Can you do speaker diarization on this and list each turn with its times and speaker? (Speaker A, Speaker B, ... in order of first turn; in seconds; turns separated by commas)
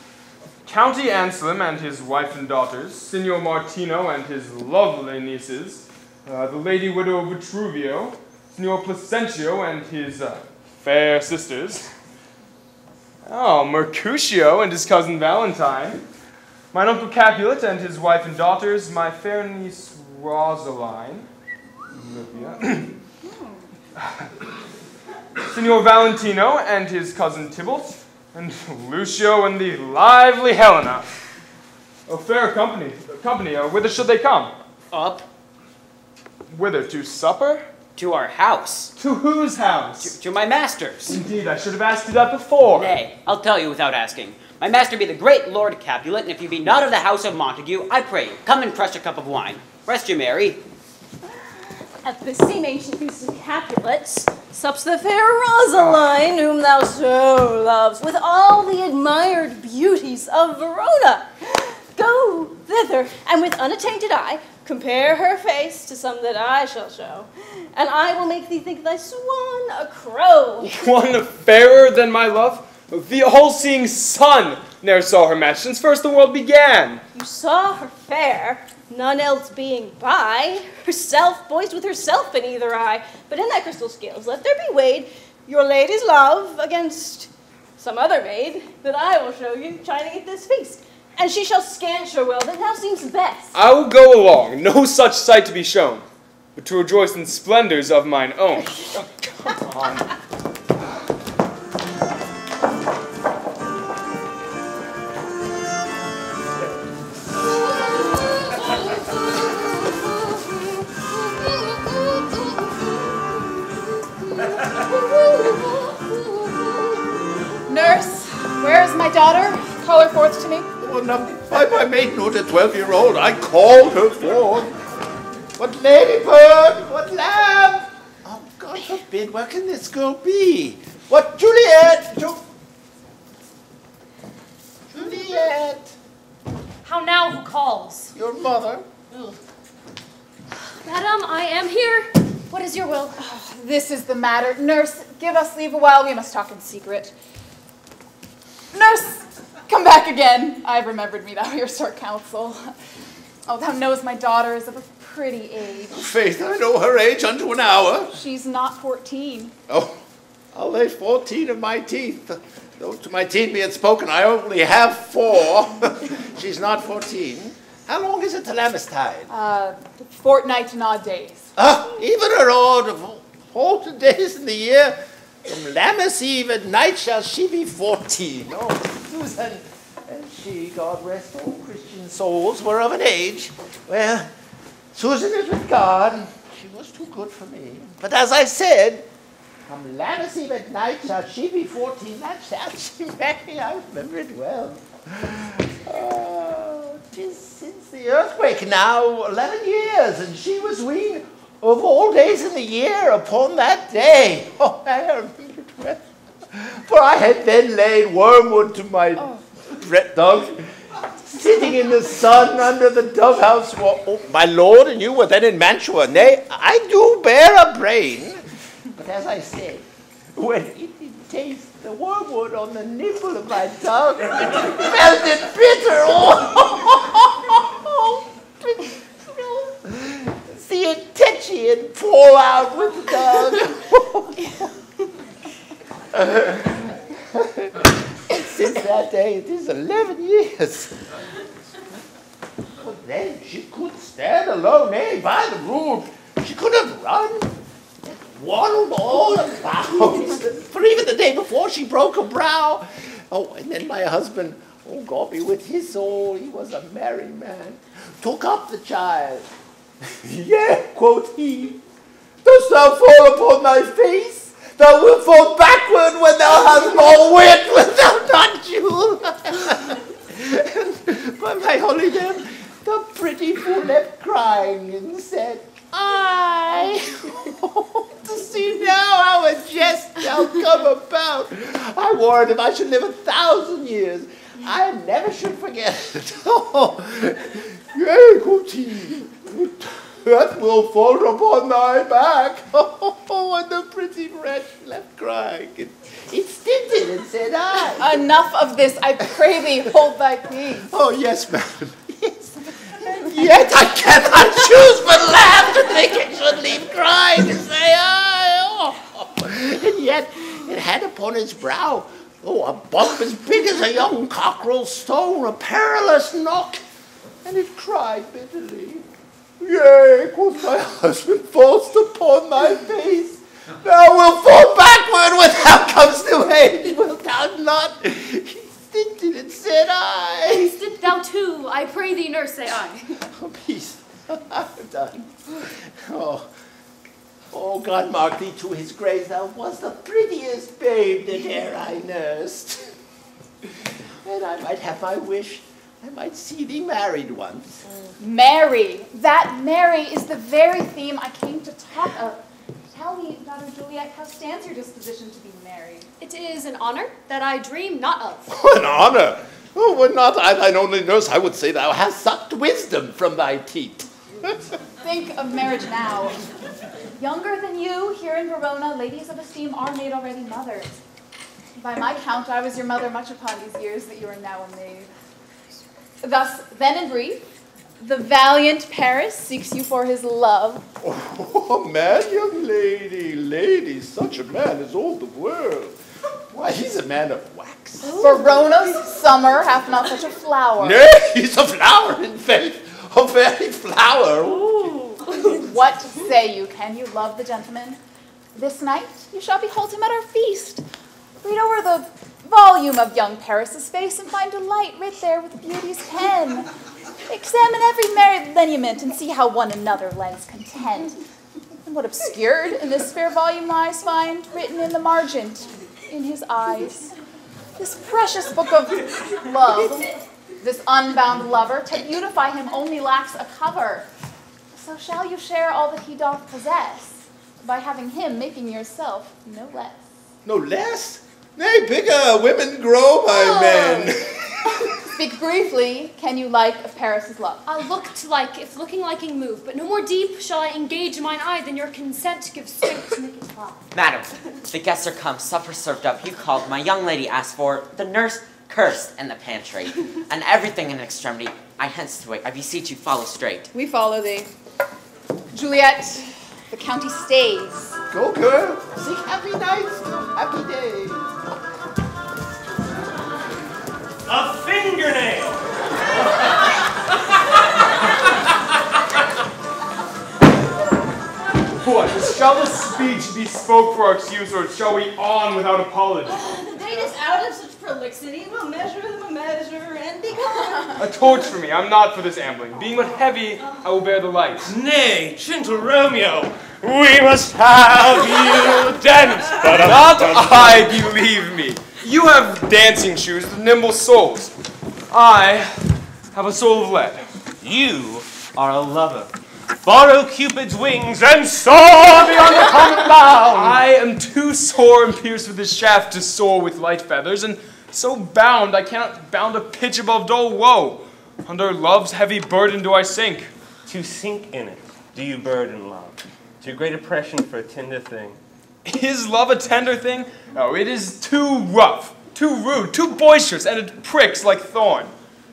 Speaker A: 0.7-11.9, Speaker A: 13.2-16.0, Speaker A: 16.7-21.3, Speaker A: 21.9-22.9, Speaker B: 23.2-23.6, Speaker A: 24.0-24.3, Speaker A: 25.5-31.1, Speaker A: 32.1-34.5, Speaker C: 34.9-35.3, Speaker A: 36.5-37.6, Speaker C: 38.0-38.9, Speaker A: 39.0-40.2, Speaker C: 40.0-41.2, Speaker A: 41.1-43.0, Speaker C: 42.6-50.6, Speaker B: 52.0-70.7, Speaker A: 70.6-77.0, Speaker B: 77.2-93.5, Speaker A: 93.5-96.0, Speaker A: 96.6-100.1, Speaker D: 117.7-120.7, Speaker E: 120.8-124.7, Speaker E: 125.6-132.4, Speaker E: 134.9-135.9, Speaker F: 136.8-138.1, Speaker E: 138.2-138.8, Speaker F: 140.8-143.2, Speaker D: 143.2-147.2, Speaker D: 148.7-152.7, Speaker D: 153.5-156.1, Speaker E: 155.9-158.1, Speaker D: 158.1-159.5, Speaker E: 159.7-160.0, Speaker E: 160.5-169.3, Speaker D: 169.3-171.5, Speaker E: 171.6-184.3, Speaker E: 184.9-189.1, Speaker E: 189.7-210.6, Speaker E: 211.3-218.4, Speaker E: 219.0-234.7, Speaker E: 236.1-240.9, Speaker E: 242.8-247.5, Speaker E: 248.3-259.5, Speaker E: 260.1-261.8, Speaker E: 262.4-298.2, Speaker D: 298.0-300.9, Speaker E: 300.9-316.8, Speaker E: 317.4-319.1, Speaker E: 319.6-330.8, Speaker F: 330.5-333.1, Speaker E: 333.3-336.5, Speaker E: 337.5-342.9, Speaker E: 344.2-347.8, Speaker D: 348.2-356.1, Speaker F: 356.2-358.6, Speaker E: 358.5-364.6, Speaker D: 365.0-366.4, Speaker D: 367.2-371.0, Speaker D: 371.8-375.1, Speaker D: 376.2-377.4, Speaker D: 378.0-380.9, Speaker E: 381.0-386.0, Speaker E: 386.5-388.2, Speaker D: 388.1-391.0, Speaker E: 390.8-395.0, Speaker G: 394.7-395.1, Speaker D: 395.3-398.0, Speaker D: 398.6-400.8, Speaker D: 401.4-406.7, Speaker D: 407.3-411.2, Speaker D: 411.9-417.1, Speaker D: 417.8-424.1, Speaker D: 424.7-430.0, Speaker E: 430.4-434.2, Speaker F: 433.3-434.1, Speaker D: 434.8-437.6, Speaker F: 437.7-443.9, Speaker C: 443.9-453.7, Speaker D: 453.7-454.5, Speaker D: 455.5-458.0, Speaker E: 458.1-461.3, Speaker G: 464.3-465.6, Speaker A: 471.8-476.4, Speaker B: 476.3-481.0, Speaker A: 481.0-484.7, Speaker G: 484.6-491.0, Speaker A: 489.6-494.5, Speaker A: 495.1-497.2, Speaker G: 497.6-499.3, Speaker G: 499.8-503.8, Speaker A: 502.7-513.5, Speaker G: 513.9-518.4, Speaker A: 518.9-525.1